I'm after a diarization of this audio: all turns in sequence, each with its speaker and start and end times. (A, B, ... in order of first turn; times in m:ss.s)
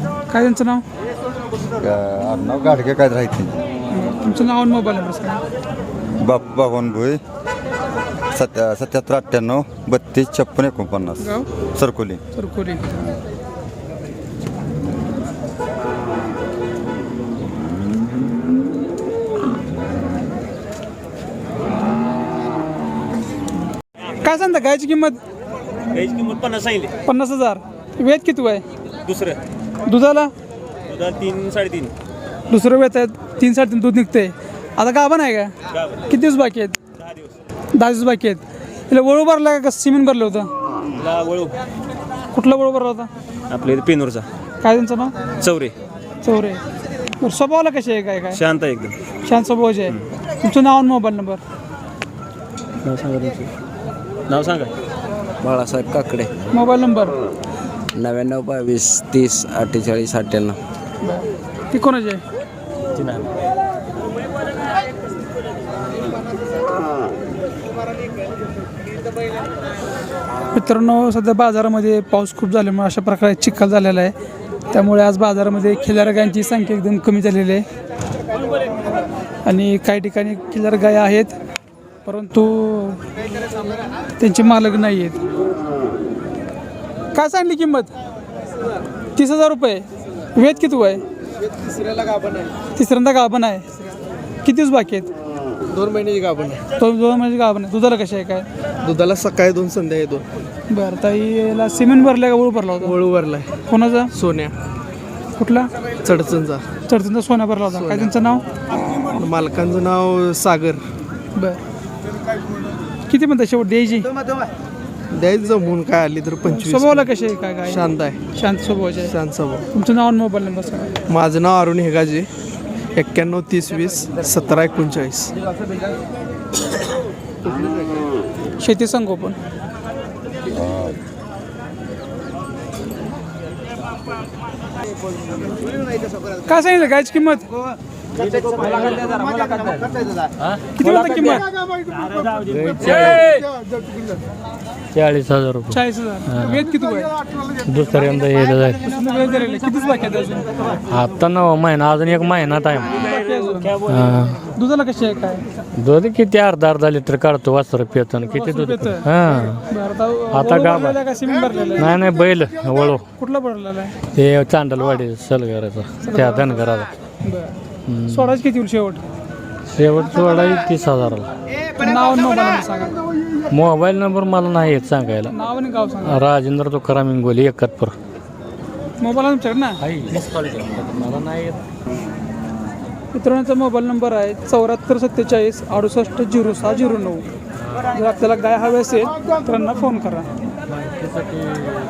0:00.3-0:00.8 A
0:01.8-0:03.6 B
0:03.9-0:05.4 A
0:06.2-0:07.2 B
0:08.3-0:12.2 B
0:11.2-0:11.5 A
0:12.3-0:12.8 A
0:24.2-0:25.2 A
0:25.9-0:26.9 C
0:27.0-0:28.6 A
0:29.0-0:29.4 C
0:29.8-0:30.3 A
0:30.9-0:31.9 C
0:32.5-0:35.5 A
0:36.1-0:36.8 A
0:37.7-0:40.5 A
0:41.0-0:41.6 C
0:42.3-0:43.1 A
0:43.5-0:44.3 C
0:44.6-0:45.1 A
0:45.4-0:45.7 C
0:46.2-0:46.6 A
0:47.2-0:48.4 A
0:48.3-0:49.0 C
0:49.2-0:51.4 A
0:52.8-0:53.5 C
0:54.3-0:54.7 C
0:55.4-0:56.4 D
0:56.5-0:57.2 A
0:57.9-1:00.6 D
1:01.0-1:02.2 A
1:03.0-1:03.2 C
1:10.5-1:14.1 A
1:14.7-1:17.6 A
1:19.4-1:21.4 A
1:22.0-1:23.0 A
1:24.2-1:25.2 A
1:27.1-1:27.9 A
1:29.2-1:31.0 A
1:32.7-1:33.7 A
1:34.4-1:35.1 A
1:35.7-1:36.6 E
1:36.8-1:38.5 A
1:38.8-1:40.2 E
1:40.7-1:43.0 A
1:42.8-1:43.5 E
1:43.7-1:44.1 A
1:44.1-1:44.6 E
1:45.4-1:45.7 A
1:46.0-1:46.6 E
1:46.9-1:48.4 A
1:47.7-1:48.1 E
1:49.1-1:50.8 E
1:51.3-1:51.6 A
1:53.1-1:54.1 A
1:55.1-1:57.1 E
1:56.4-1:59.1 A
1:57.7-1:58.2 E
1:59.0-1:59.6 E
1:59.7-2:01.0 A
2:01.1-2:02.3 E
2:02.9-2:05.3 E
2:08.6-2:09.4 A
2:10.5-2:11.0 B
2:16.4-2:17.5 A
2:18.2-2:20.1 C
2:20.8-2:21.5 A
2:20.8-2:22.4 C
2:22.5-2:23.4 F
2:23.0-2:23.4 C
2:24.9-2:26.6 F
2:25.7-2:27.1 A
2:27.6-2:28.9 F
2:28.8-2:30.5 A
2:30.9-2:33.0 F
2:33.0-2:33.8 A
2:33.8-2:34.4 F
2:34.5-2:35.4 A
2:35.8-2:39.6 F
2:38.3-2:39.1 A
2:39.7-2:41.9 A
2:40.3-2:41.0 F
2:41.8-2:43.0 F
2:43.2-2:44.0 A
2:44.1-2:46.9 F
2:46.0-2:46.5 A
2:47.2-2:47.5 A
2:47.9-2:48.4 F
2:48.1-2:49.0 A
2:49.7-2:51.3 F
2:51.8-2:53.0 A
2:53.5-2:55.3 F
2:55.3-2:56.2 A
2:56.0-2:57.9 F
2:59.0-2:59.8 A
2:59.8-3:01.6 F
3:03.1-3:07.2 A
3:07.9-3:10.3 A
3:10.9-3:11.6 F